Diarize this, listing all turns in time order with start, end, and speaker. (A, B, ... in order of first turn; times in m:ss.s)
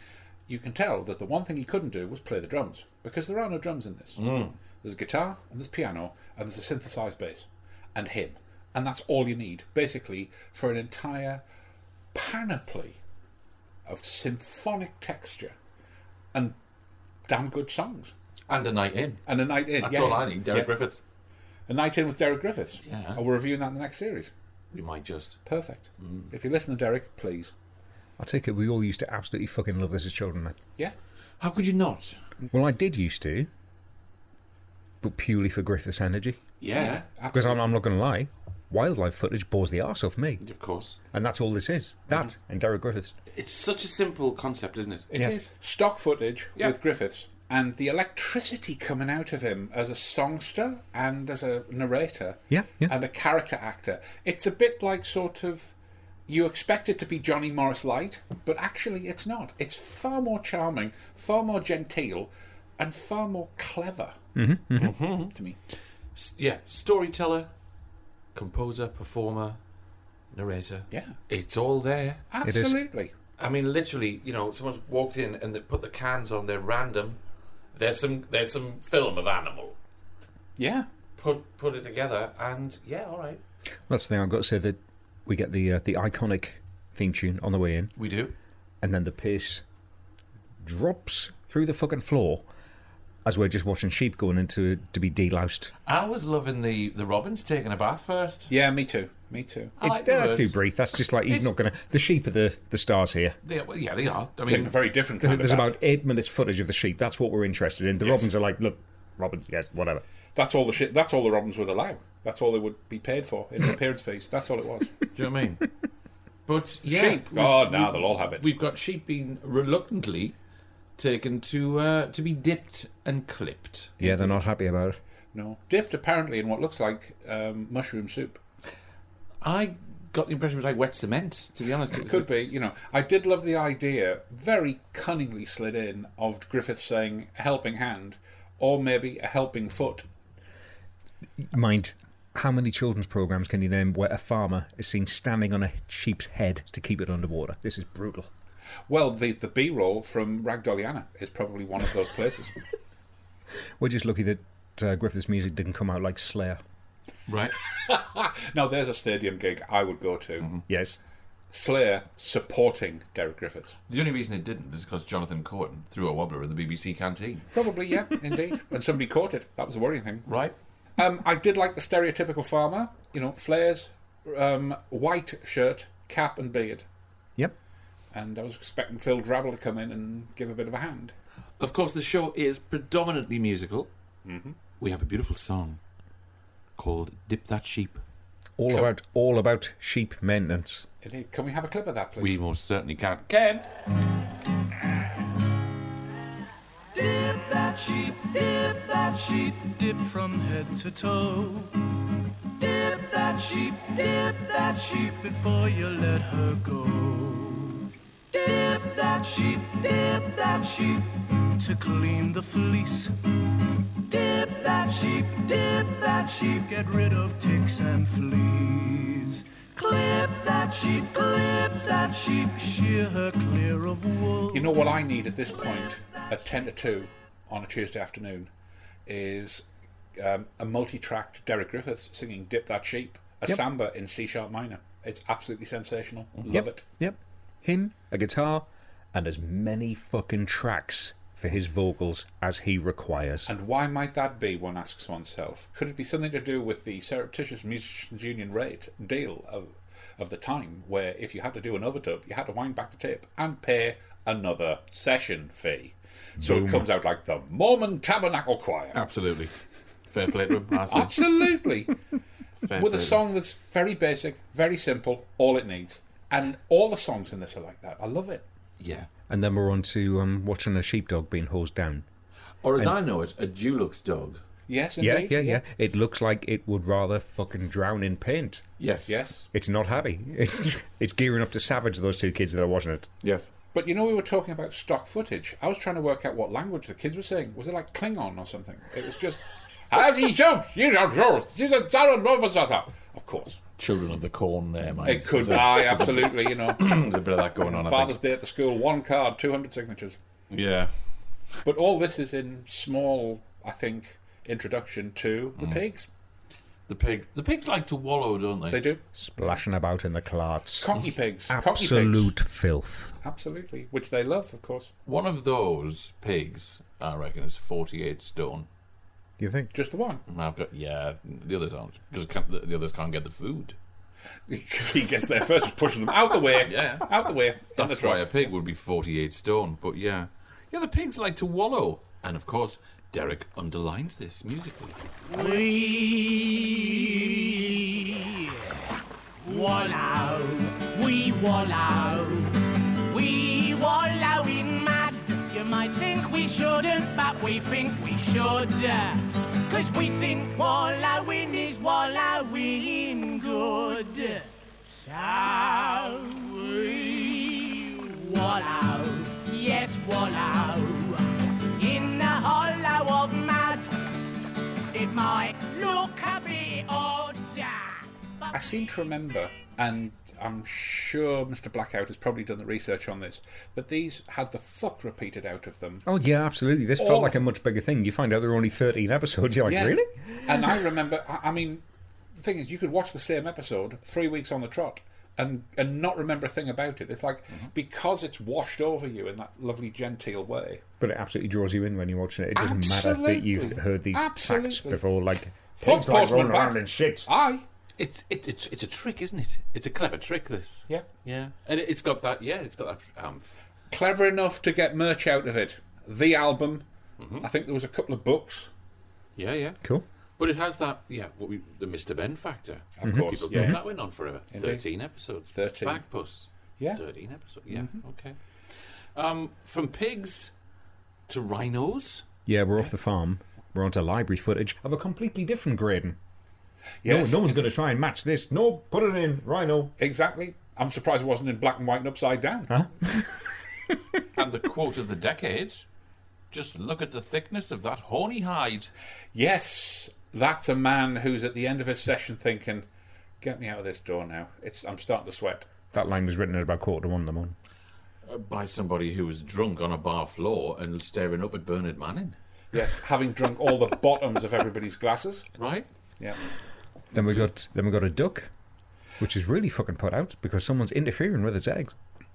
0:00.5-0:04.2 A
0:04.2-0:04.6 B
0:04.8-0:11.4 A
0:12.1-0:13.0 A
0:13.9-0:15.6 A
0:17.3-0:18.1 A
0:18.5-0:19.3 B
0:19.3-0:20.7 A
0:19.8-0:21.0 B
0:21.7-0:24.3 A
0:22.8-0:23.2 B
0:24.7-0:25.4 B
0:25.5-0:27.5 A
0:26.0-0:26.3 B
0:28.2-0:30.6 C
0:31.4-0:32.2 B
0:32.5-0:33.5 C
0:35.0-0:36.4 C
0:36.6-0:37.0 B
0:36.7-0:37.6 A
0:37.3-0:40.4 C
0:40.4-0:41.0 B
0:41.1-0:43.2 C
0:43.3-0:45.1 B
0:45.1-0:55.7 A
0:52.5-0:52.9 C
0:56.3-1:04.2 A
1:04.4-1:05.0 C
1:04.8-1:05.3 B
1:06.2-1:07.5 B
1:08.3-1:09.6 B
1:10.3-1:12.2 B
1:10.9-1:11.2 A
1:12.3-1:13.1 A
1:12.4-1:12.8 C
1:13.4-1:17.2 B
1:17.7-1:19.8 B
1:20.6-1:20.9 A
1:21.2-1:23.4 B
1:23.9-1:28.0 C
1:28.0-1:28.4 B
1:28.8-1:29.6 C
1:30.6-1:32.4 C
1:33.2-1:35.7 C
1:35.9-1:38.5 B
1:38.5-1:39.8 A
1:39.8-1:40.6 B
1:39.8-1:43.4 C
1:43.4-1:44.7 B
1:44.5-1:45.8 A
1:45.2-1:50.0 C
1:48.0-1:48.3 A
1:50.4-1:54.9 A
1:55.1-1:55.7 B
1:56.5-2:00.4 B
1:56.9-1:58.5 A
2:01.0-2:04.0 B
2:04.0-2:04.4 A
2:04.0-2:05.0 C
2:05.3-2:08.4 A
2:09.4-2:12.3 B
2:11.9-2:20.1 A
2:21.4-2:28.3 C
2:28.9-2:32.6 A
2:33.8-2:36.6 C
2:37.3-2:37.6 B
2:37.9-2:40.5 A
2:40.7-2:41.0 C
2:41.5-2:43.8 A
2:43.9-2:47.5 B
2:47.5-2:50.3 A
2:50.3-2:50.5 B
2:51.0-2:56.9 A
2:58.1-3:01.2 A
3:01.6-3:03.9 B
3:04.2-3:04.6 A
3:04.8-3:05.8 B
3:06.8-3:08.0 B
3:08.6-3:10.9 C
3:11.0-3:12.4 A
3:12.2-3:13.7 B
3:17.0-3:21.8 D
3:22.6-3:33.1 D
3:34.1-3:44.8 D
3:44.5-3:48.5 A
3:49.1-3:56.8 A
3:56.5-4:03.5 C
4:03.5-4:19.0 A
4:16.4-4:16.8 C
4:18.9-4:19.5 B
4:20.1-4:21.3 B
4:20.9-4:22.0 A
4:22.6-4:23.2 B
4:22.8-4:28.4 A
4:28.8-4:29.1 B
4:29.3-4:32.1 C
4:32.6-4:34.4 B
4:34.7-4:35.6 A
4:35.0-4:38.7 C
4:38.8-4:39.2 B
4:39.1-4:39.5 A
4:39.5-4:43.1 C
4:43.2-4:43.5 B
4:43.7-4:53.6 A
4:53.8-4:58.2 B
4:55.0-4:57.0 A
4:57.6-5:00.2 A
5:00.5-5:00.9 B
5:01.6-5:06.1 A
5:06.9-5:08.8 B
5:08.7-5:09.6 A
5:09.2-5:11.0 C
5:10.8-5:12.3 A
5:11.5-5:13.2 C
5:13.2-5:14.9 A
5:15.1-5:18.7 B
5:19.4-5:19.7 C
5:19.7-5:20.2 A
5:20.3-5:23.8 B
5:24.5-5:28.3 A
5:26.6-5:27.2 B
5:27.8-5:35.0 B
5:35.3-5:38.8 E
5:39.4-6:03.9 E
6:04.9-6:08.1 E
6:08.5-6:16.1 A
6:16.1-6:20.8 C
6:17.0-6:17.4 A
6:19.7-6:21.8 A
6:22.4-6:30.8 A
6:31.0-6:37.3 C
6:32.6-6:35.0 A
6:35.8-6:37.7 A
6:38.0-6:43.5 B
6:43.9-6:46.8 A
6:47.2-6:47.5 B
6:47.4-6:48.7 A
6:49.4-6:49.8 B
6:50.4-7:00.5 B
6:53.0-6:53.8 A
6:53.0-6:53.8 C
6:54.5-6:54.8 A
6:55.5-6:56.0 A
6:57.7-6:58.0 A
7:01.3-7:02.2 B
7:02.5-7:06.2 C
7:07.0-7:07.5 A
7:07.0-7:09.9 C
7:10.0-7:12.8 A
7:12.7-7:13.4 C
7:14.4-7:15.8 B
7:16.5-7:18.9 B
7:19.3-7:22.9 A
7:23.4-7:25.7 A
7:25.9-7:27.6 C
7:28.3-7:32.4 B
7:32.7-7:35.5 A
7:35.6-7:35.9 B
7:37.1-7:38.5 C
7:37.2-7:37.4 B
7:39.2-7:42.0 C